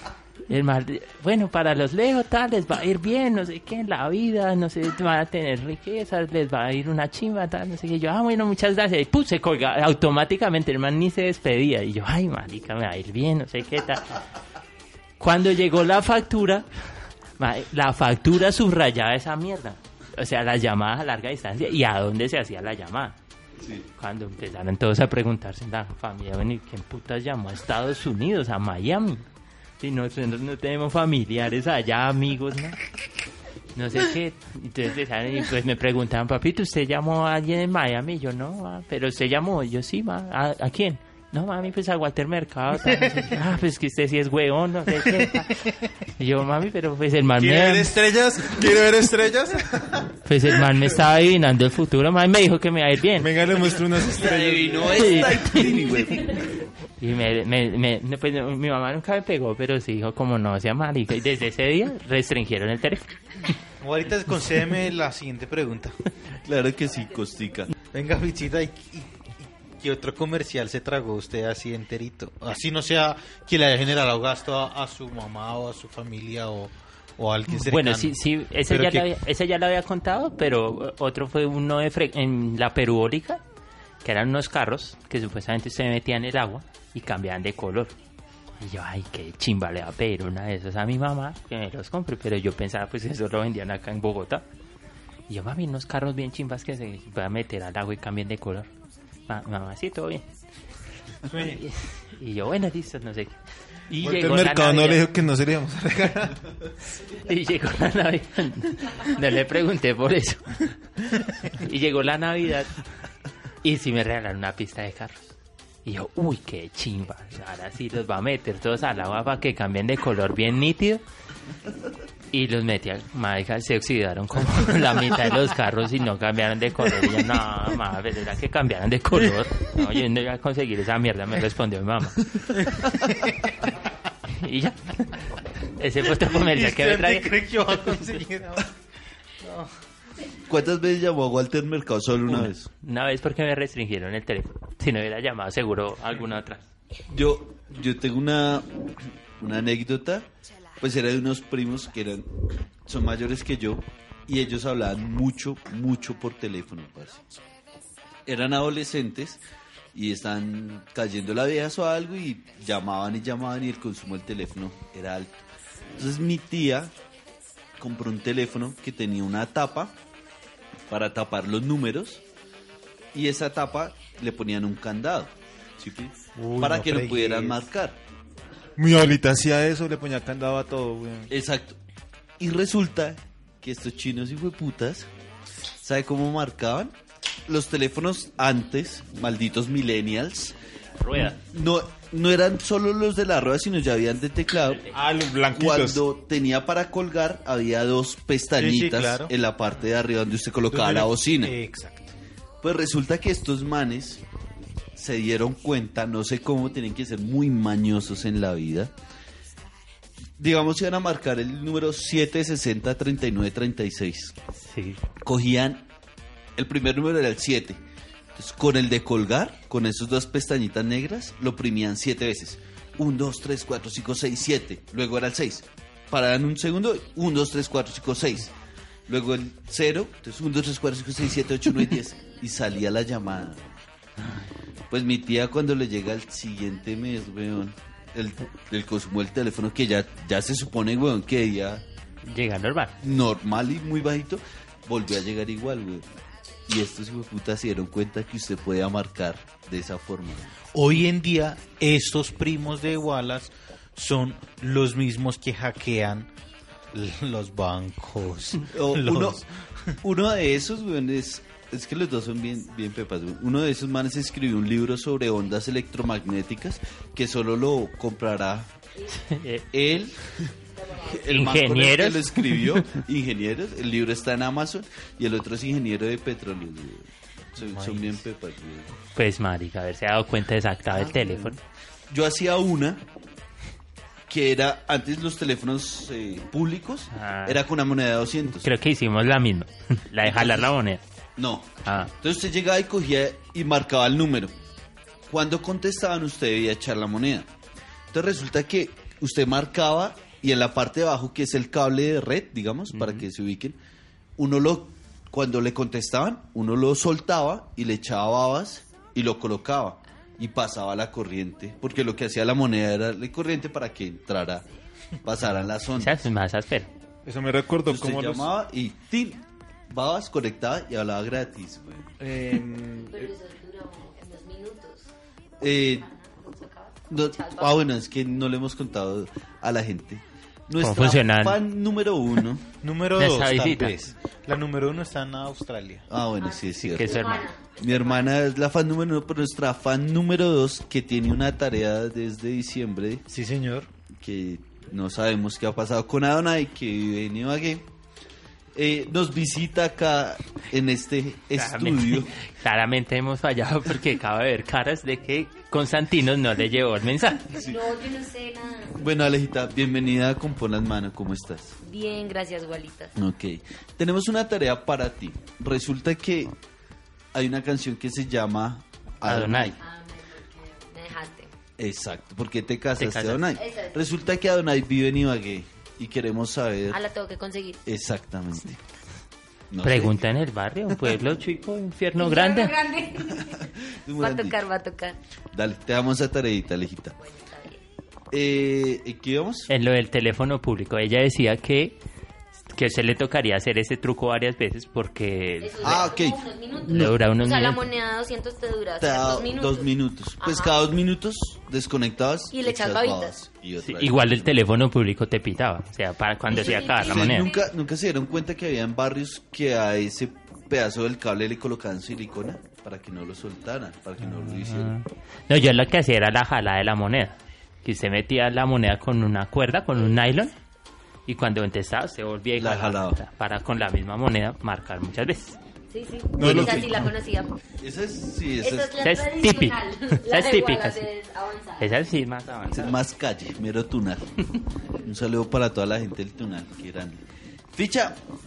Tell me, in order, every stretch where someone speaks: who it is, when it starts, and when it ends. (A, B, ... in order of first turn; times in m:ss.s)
0:00.5-0:14.2 A
0:15.2-0:16.6 A
0:17.4-0:23.2 A
0:23.6-0:23.8 B
0:24.0-0:29.2 A
0:29.8-0:32.8 A
0:33.7-0:47.9 A
0:47.4-0:50.0 C
0:47.5-0:47.8 D
0:50.2-0:53.3 A
0:53.2-0:55.6 C
0:54.1-0:56.6 B
0:55.0-0:55.9 A
0:57.0-1:03.1 A
1:03.8-1:06.0 D
1:06.4-1:07.7 B
1:07.9-1:18.2 D
1:17.5-1:23.4 A
1:18.7-1:19.1 D
1:24.0-1:27.9 A
1:28.6-1:34.4 A
1:35.3-1:38.7 A
1:39.3-1:40.2 A
1:41.2-1:41.6 C
1:41.5-1:45.0 A
1:44.0-1:46.4 C
1:47.1-1:50.7 A
1:51.5-1:52.7 A
1:53.6-1:55.3 A
1:55.8-2:01.0 A
2:02.3-2:12.3 A
2:12.6-2:13.5 D
2:14.3-2:17.3 A
2:16.1-2:18.7 D
2:19.4-2:19.7 D
2:20.4-2:22.7 B
2:22.3-2:26.6 A
2:27.1-2:32.3 B
2:32.8-2:37.3 B
2:38.2-2:39.4 B
2:39.9-2:45.4 B
2:46.0-2:46.9 B
2:47.8-2:50.0 B
2:50.9-2:52.2 B
2:53.1-2:58.0 B
2:56.4-2:57.6 D
2:58.8-3:01.3 C
3:01.3-3:01.8 B
3:02.4-3:05.1 B
3:05.8-3:06.9 B
3:07.5-3:10.5 B
3:11.0-3:11.4 A
3:11.1-3:14.8 B
3:14.7-3:15.0 A
3:14.9-3:16.0 C
3:15.5-3:21.5 B
3:18.6-3:19.3 D
3:20.7-3:22.1 D
3:22.6-3:24.2 B
3:25.0-3:28.9 B
3:30.4-3:34.3 B
3:34.6-3:35.0 A
3:35.2-3:35.8 B
3:36.6-3:37.8 B
3:38.3-3:48.5 B
3:49.1-3:53.8 B
3:54.9-4:01.8 B
4:02.2-4:03.0 A
4:03.0-4:06.0 B
4:06.7-4:10.5 B
4:10.7-4:16.3 D
4:16.9-4:20.0 D
4:18.7-4:19.4 B
4:20.0-4:28.7 B
4:29.0-4:29.3 E
4:29.2-4:29.6 A
4:29.7-4:30.2 B
4:30.7-4:31.6 E
4:31.0-4:38.9 B
4:31.2-4:32.8 A
4:37.6-4:38.2 D
4:39.1-4:41.6 A
4:40.9-4:41.6 B
4:42.1-4:43.0 B
4:44.3-4:48.7 B
4:47.1-4:47.6 A
4:48.6-4:51.0 A
4:50.2-4:50.7 B
4:51.4-4:54.5 B
4:51.8-4:52.1 A
4:55.3-4:57.5 B
4:58.1-5:03.8 B
5:02.9-5:03.2 A
5:04.4-5:14.6 B
5:15.2-5:16.2 B
5:15.9-5:16.9 A
5:17.2-5:18.5 C
5:17.8-5:22.1 B
5:22.2-5:23.3 C
5:23.1-5:25.1 E
5:25.6-5:26.1 B
5:25.6-5:27.8 E
5:27.1-5:32.6 B
5:30.8-5:31.6 A
5:32.8-5:36.0 D
5:33.2-5:34.1 A
5:36.1-5:43.2 B
5:36.4-5:38.3 E
5:36.9-5:37.5 A
5:43.3-5:43.9 D
5:44.1-5:47.9 B
5:48.7-5:52.3 B
5:51.5-5:57.5 A
5:57.5-5:57.8 B
5:57.5-5:59.1 E
5:59.0-6:01.8 B
6:01.8-6:03.1 E
6:03.2-6:06.5 B
6:07.3-6:09.8 B
6:09.2-6:09.8 A
6:09.8-6:11.5 E
6:11.8-6:17.0 B
6:13.0-6:13.5 A
6:13.5-6:14.2 E
6:16.9-6:17.8 E
6:17.8-6:18.8 B
6:19.7-6:20.2 B
6:19.8-6:22.7 A
6:22.1-6:25.2 E
6:24.0-6:24.6 B
6:25.5-6:27.2 B
6:27.2-6:27.8 E
6:28.3-6:29.7 B
6:29.7-6:32.0 A
6:32.7-6:36.0 A
6:35.6-6:40.8 E
6:35.8-6:36.4 B
6:36.9-6:37.8 A
6:39.0-6:44.6 B
6:42.5-6:43.4 E
6:43.8-6:47.5 A
6:46.5-6:47.8 E
6:46.5-6:55.0 B
6:54.2-7:00.5 A
7:01.3-7:05.6 A
7:02.6-7:03.2 B
7:05.9-7:07.5 E
7:06.4-7:07.1 C
7:06.4-7:07.0 B
7:07.8-7:09.0 B
7:08.6-7:12.0 E
7:09.0-7:11.0 A
7:11.8-7:12.9 A
7:12.7-7:14.4 B
7:15.0-7:18.2 B